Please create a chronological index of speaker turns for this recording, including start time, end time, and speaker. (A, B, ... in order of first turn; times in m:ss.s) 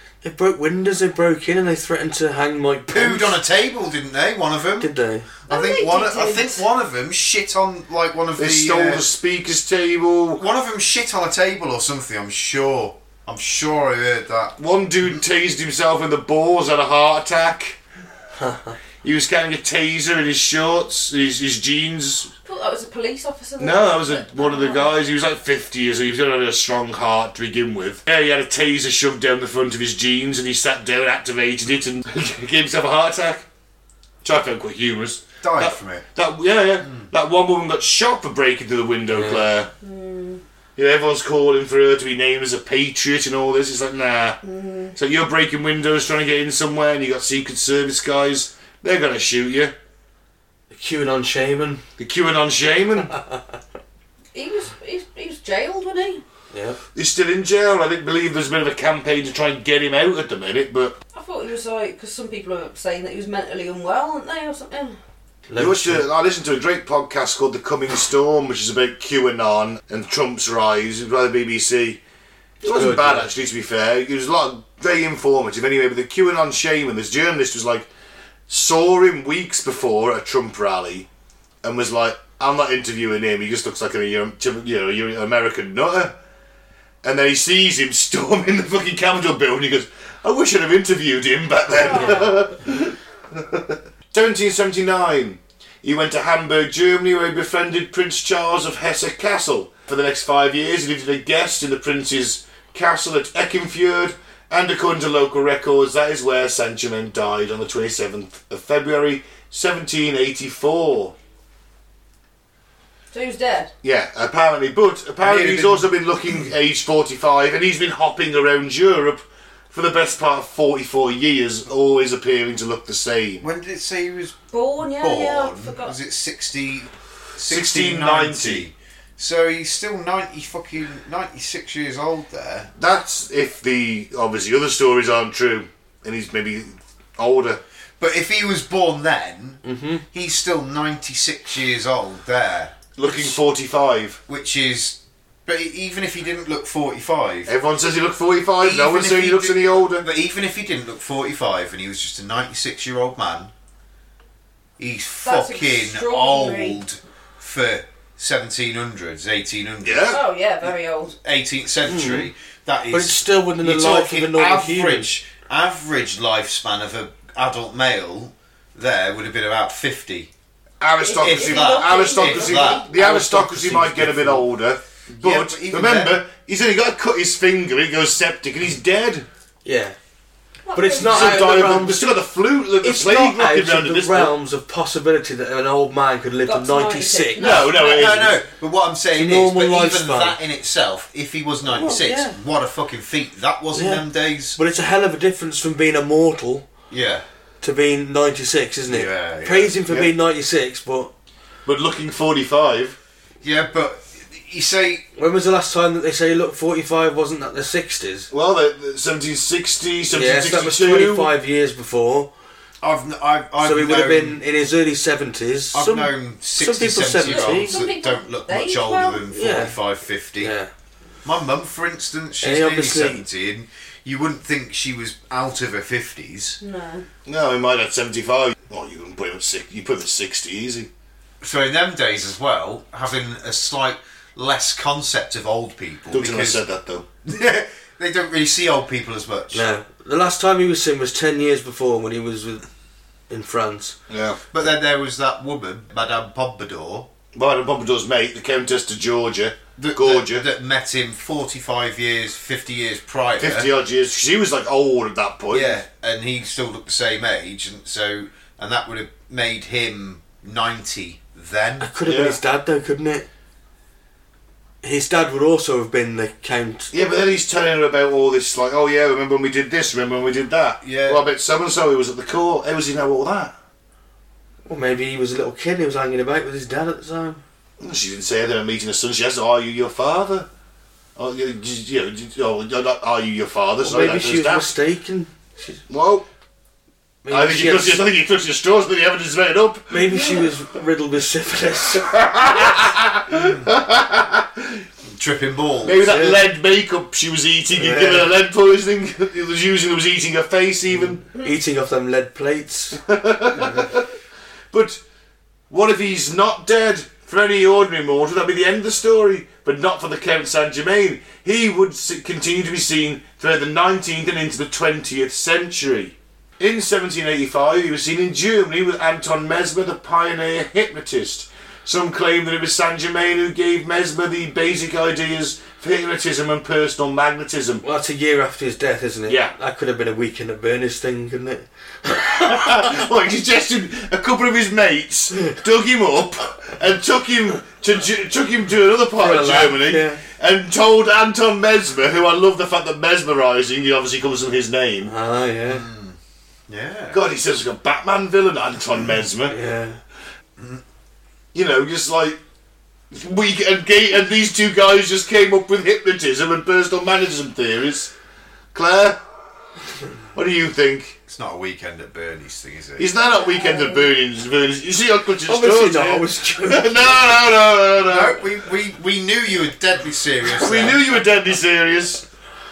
0:00.2-0:03.4 A
0:02.9-0:04.9 B
0:04.8-0:05.3 A
0:05.4-0:09.1 B
0:05.5-0:06.6 C
0:08.4-0:10.4 D
0:10.4-0:14.6 B
0:14.6-0:17.8 D
0:18.4-0:18.7 A
0:19.0-0:22.3 D
0:22.4-0:25.0 C
0:23.6-0:33.4 D
0:34.2-0:39.7 D
0:35.4-0:36.0 B
0:39.1-0:39.5 A
0:39.8-0:40.4 C
0:40.8-0:44.4 D
0:44.4-0:44.9 C
0:44.9-0:49.7 D
0:50.7-0:51.8 A
0:52.0-0:53.1 D
0:54.3-0:56.2 C
0:56.5-0:56.8 A
0:56.9-1:01.0 D
1:01.1-1:05.0 C
1:05.5-1:06.0 A
1:05.6-1:12.0 D
1:12.6-1:17.9 D
1:12.6-1:13.3 A
1:18.5-1:21.1 D
1:21.6-1:26.1 D
1:27.0-1:51.1 D
1:31.7-1:32.5 C
1:53.1-1:53.7 C
1:53.8-2:03.5 D
1:55.2-1:55.9 B
2:03.4-2:04.4 B
2:04.5-2:05.9 C
2:04.9-2:12.7 B
2:07.5-2:08.6 D
2:12.8-2:17.6 D
2:18.0-2:23.3 B
2:19.6-2:20.0 A
2:23.0-2:24.2 D
2:24.3-2:27.5 B
2:27.4-2:30.1 D
2:28.6-2:33.5 B
2:34.8-2:50.3 B
2:35.2-2:36.8 C
2:39.8-2:40.2 D
2:40.1-2:41.1 C
2:41.9-2:42.3 A
2:42.9-2:45.1 A
2:50.8-2:59.2 D
2:51.0-2:52.9 C
2:51.2-2:52.9 B
2:52.9-2:54.5 A
2:55.1-2:56.2 B
2:59.6-3:00.0 A
3:00.6-3:01.9 C
3:00.7-3:02.0 A
3:01.0-3:04.3 D
3:02.8-3:07.4 A
3:06.4-3:08.2 C
3:07.4-3:08.4 D
3:07.4-3:14.6 B
3:09.2-3:10.4 A
3:11.7-3:12.4 A
3:13.7-3:16.7 A
3:16.9-3:17.2 B
3:17.6-3:21.1 A
3:18.9-3:19.8 B
3:21.6-3:23.0 D
3:23.4-3:25.0 B
3:25.2-3:28.3 A
3:28.3-3:31.3 D
3:30.1-3:32.3 A
3:32.8-3:34.4 B
3:33.6-3:37.8 A
3:35.7-3:40.5 B
3:37.2-3:39.2 C
3:39.3-3:39.8 A
3:40.4-3:40.7 A
3:41.2-3:46.6 B
3:42.4-3:43.2 A
3:46.6-3:47.0 C
3:47.2-3:50.9 D
3:51.4-3:56.6 B
3:56.1-3:57.0 D
3:57.2-3:59.7 B
3:59.5-4:02.6 A
4:03.3-4:04.0 A
4:04.1-4:04.4 D
4:04.5-4:07.1 B
4:07.3-4:10.4 D
4:09.8-4:13.7 B
4:13.4-4:15.8 D
4:15.5-4:21.9 B
4:21.8-4:23.3 A
4:22.0-4:22.4 D
4:24.8-4:26.9 A
4:26.9-4:33.5 D
4:30.8-4:31.2 B
4:34.6-4:37.4 A
4:37.8-4:40.5 D
4:41.2-4:44.7 D
4:43.8-4:45.8 A
4:45.9-4:46.2 D
4:47.2-4:48.0 A
4:47.3-4:50.4 D
4:49.9-4:52.1 A
4:52.0-4:54.8 D
4:55.1-4:56.3 B
4:55.8-5:01.2 D
4:56.0-4:56.4 A
4:57.7-4:58.3 A
5:00.9-5:03.0 A
5:03.0-5:04.0 D
5:04.7-5:05.0 D
5:05.7-5:27.8 D
5:27.8-5:32.5 A
5:29.3-5:29.5 D
5:32.3-5:45.1 D
5:39.1-5:40.2 A
5:45.0-5:45.9 A
5:45.7-5:47.2 B
5:47.1-5:49.6 D
5:49.5-5:50.0 A
5:50.6-5:50.8 B
5:51.5-5:52.4 D
5:53.1-5:58.1 D
5:58.7-5:59.2 D
6:00.3-6:01.2 D
6:01.3-6:03.1 B
6:03.0-6:08.4 D
6:03.3-6:04.1 C
6:05.4-6:07.3 A
6:08.1-6:11.0 B
6:10.4-6:12.2 D